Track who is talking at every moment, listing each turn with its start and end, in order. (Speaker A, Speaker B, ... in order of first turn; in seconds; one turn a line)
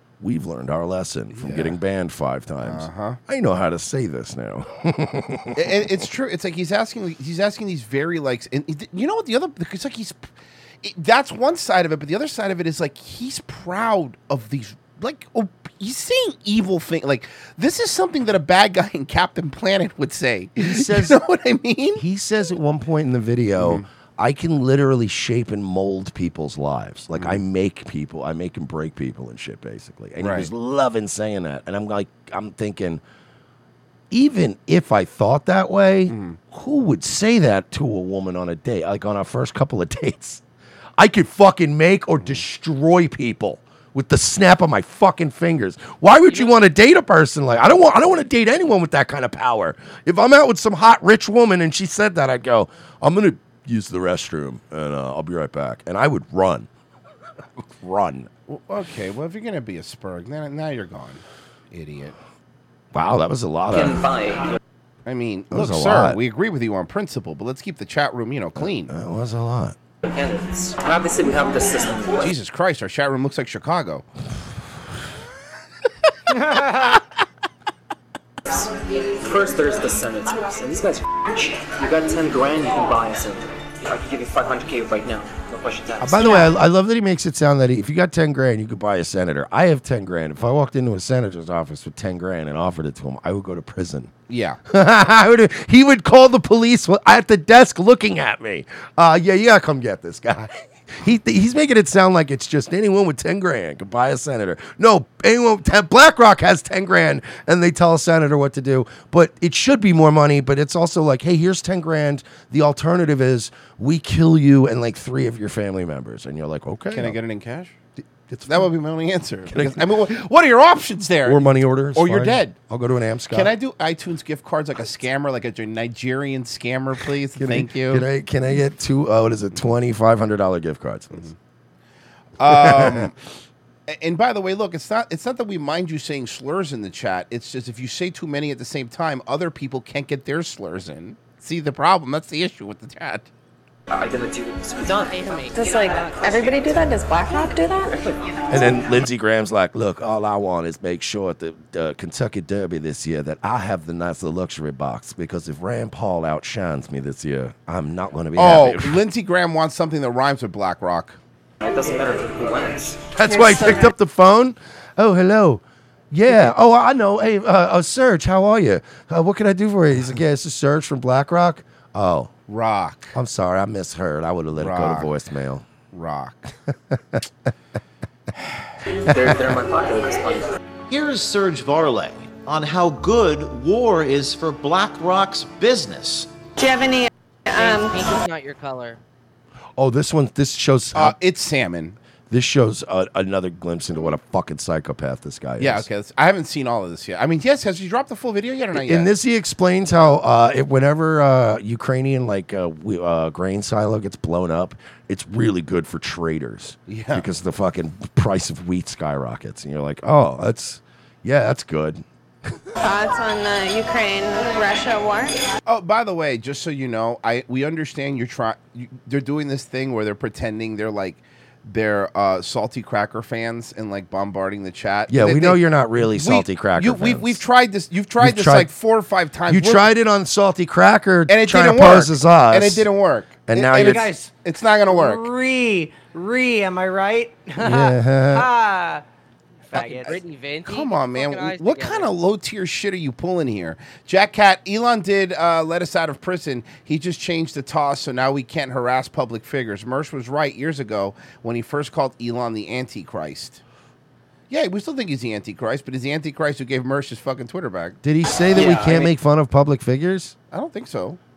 Speaker A: 0.2-5.7
Speaker B: 1.3-1.8
Speaker B: 2.6-3.2
Speaker B: 5.6-10.3
Speaker B: 10.8-22.0
Speaker A: 20.6-21.2
Speaker A: 22.0-33.0
Speaker B: 23.6-23.9
Speaker B: 27.1-27.4
Speaker B: 30.2-30.5
Speaker A: 34.1-40.4
Speaker B: 36.1-36.4
Speaker A: 41.0-56.7
Speaker A: 57.6-58.3
Speaker B: 58.5-62.2
Speaker A: 62.9-64.0
Speaker C: 63.7-64.6
Speaker B: 65.1-68.9
Speaker A: 65.5-66.2
Speaker A: 68.6-69.8
Speaker C: 70.0-72.3
Speaker B: 72.2-74.0
Speaker D: 76.5-76.9
Speaker C: 78.5-86.5
Speaker A: 86.0-94.1
Speaker B: 94.3-94.6
Speaker A: 94.7-117.2
Speaker B: 116.9-117.8
Speaker A: 118.3-118.7
Speaker B: 118.5-122.5
Speaker A: 119.5-119.9
Speaker A: 121.2-123.5
Speaker B: 123.3-128.1
Speaker A: 127.4-131.3
Speaker B: 132.4-133.1
Speaker A: 132.4-133.1
Speaker B: 133.9-143.3
Speaker C: 143.9-145.2
Speaker E: 145.1-146.2
Speaker F: 145.5-147.9
Speaker C: 147.9-148.4
Speaker A: 148.5-159.0
Speaker B: 158.4-161.2
Speaker C: 161.6-163.1
Speaker A: 163.1-172.3
Speaker F: 163.2-163.9
Speaker B: 172.5-173.2
Speaker A: 173.1-175.7
Speaker B: 174.6-175.1
Speaker B: 175.9-176.5
Speaker A: 176.9-177.2
Speaker C: 179.0-180.6
Speaker G: 180.9-186.3
Speaker F: 186.6-188.0
Speaker E: 187.5-189.0
Speaker A: 189.8-191.2
Speaker B: 190.9-192.0
Speaker A: 192.3-195.9
Speaker B: 195.6-199.1
Speaker A: 198.7-212.6
Speaker B: 206.9-207.3
Speaker F: 212.8-215.4
Speaker B: 215.7-229.9
Speaker A: 225.1-227.4
Speaker A: 228.2-228.7
Speaker A: 229.5-232.9
Speaker B: 231.3-235.3
Speaker A: 233.5-234.1
Speaker D: 233.7-234.3
Speaker D: 234.9-239.0
Speaker A: 237.6-238.5
Speaker D: 239.7-240.2
Speaker E: 239.7-242.1
Speaker B: 240.7-253.6
Speaker B: 254.5-258.0
Speaker A: 258.0-260.3
Speaker B: 260.5-261.2